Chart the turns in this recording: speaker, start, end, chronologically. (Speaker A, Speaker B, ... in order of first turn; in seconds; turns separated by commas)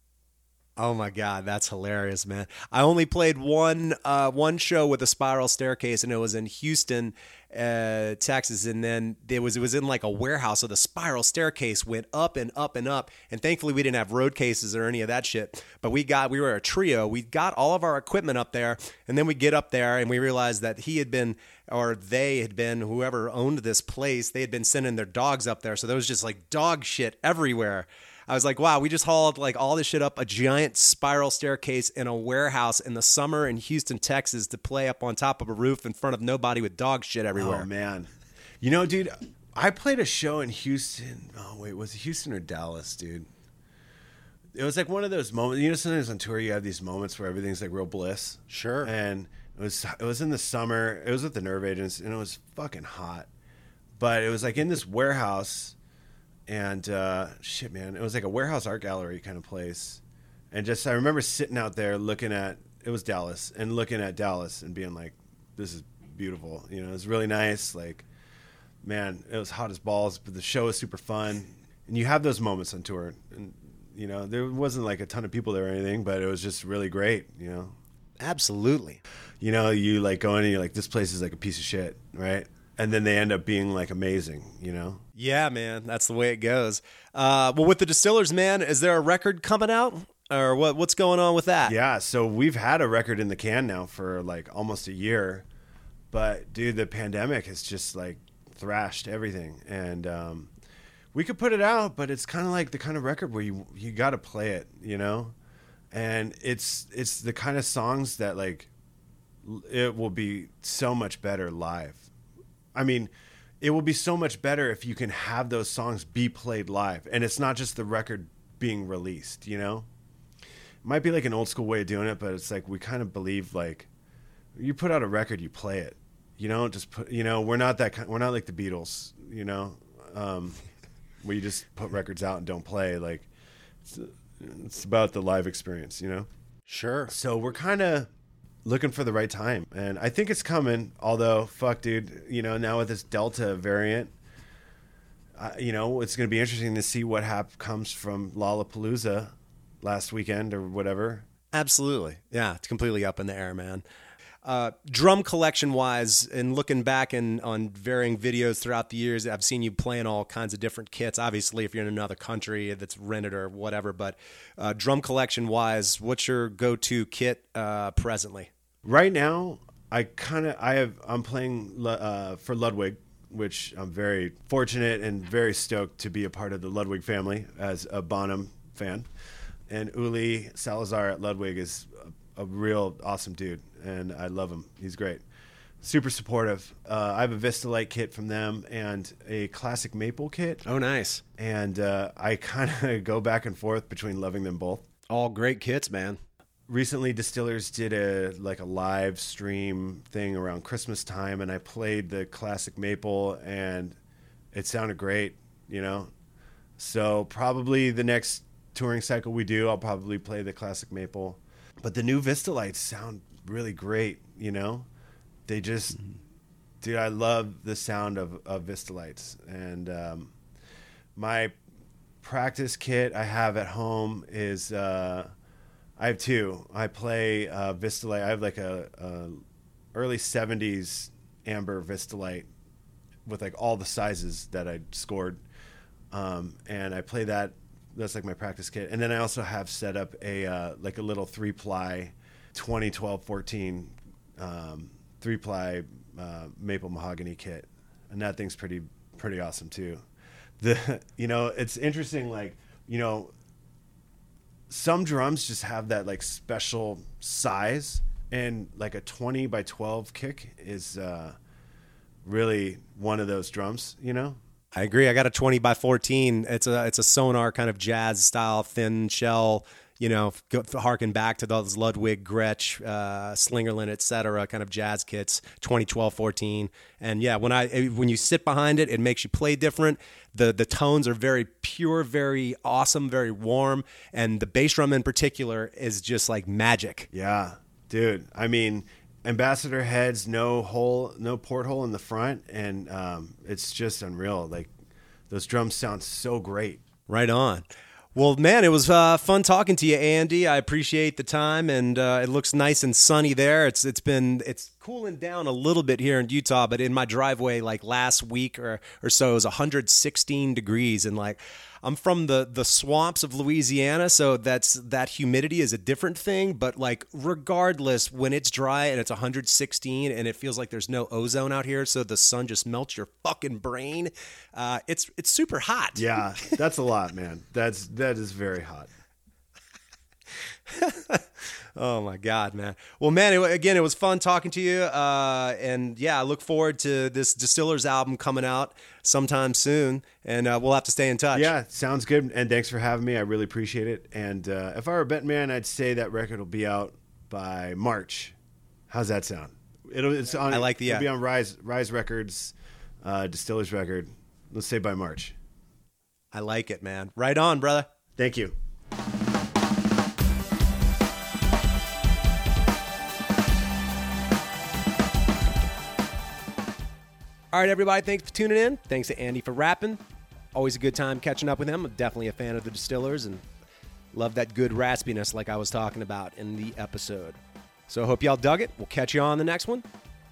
Speaker A: 0.8-37.7, Speaker B: 37.4-38.1, Speaker B: 38.6-43.3, Speaker B: 44.5-53.3, Speaker A: 48.5-48.9, Speaker B: 54.0-55.8, Speaker B: 56.5-68.1, Speaker B: 68.8-77.8, Speaker A: 78.2-79.0, Speaker B: 79.4-85.0, Speaker A: 85.2-91.8, Speaker B: 91.7-95.5, Speaker B: 96.1-100.5, Speaker B: 101.1-105.3, Speaker B: 105.9-108.7, Speaker B: 109.4-112.1, Speaker B: 112.7-119.9, Speaker B: 120.8-123.9, Speaker B: 124.6-130.6, Speaker B: 131.2-133.3, Speaker B: 133.8-136.3, Speaker A: 136.7-137.1, Speaker B: 137.1-138.1, Speaker B: 138.7-144.1, Speaker B: 145.4-151.3, Speaker A: 151.5-153.8, Speaker A: 154.4-168.5, Speaker B: 168.8-179.1, Speaker B: 179.7-185.2, Speaker B: 185.8-190.6, Speaker A: 190.7-191.2, Speaker B: 191.4-194.9, Speaker A: 195.1-196.2, Speaker B: 196.7-204.0, Speaker B: 204.5-206.1, Speaker B: 206.8-214.9, Speaker B: 215.5-216.1, Speaker B: 216.8-220.3, Speaker B: 221.2-221.5, Speaker B: 222.2-225.3, Speaker B: 226.0-232.5, Speaker B: 233.2-235.4, Speaker B: 236.1-250.0, Speaker B: 250.6-253.3, Speaker B: 254.7-261.4, Speaker B: 262.2-264.4, Speaker A: 264.7-287.1, Speaker B: 287.1-294.7, Speaker B: 295.3-296.8, Speaker A: 297.1-326.6, Speaker B: 326.0-328.9, Speaker A: 330.7-341.5, Speaker B: 341.3-348.4, Speaker B: 348.9-355.4, Speaker A: 350.5-351.1, Speaker A: 356.3-357.9, Speaker B: 358.2-358.6, Speaker A: 367.5-370.0, Speaker A: 370.5-373.4, Speaker A: 374.1-379.9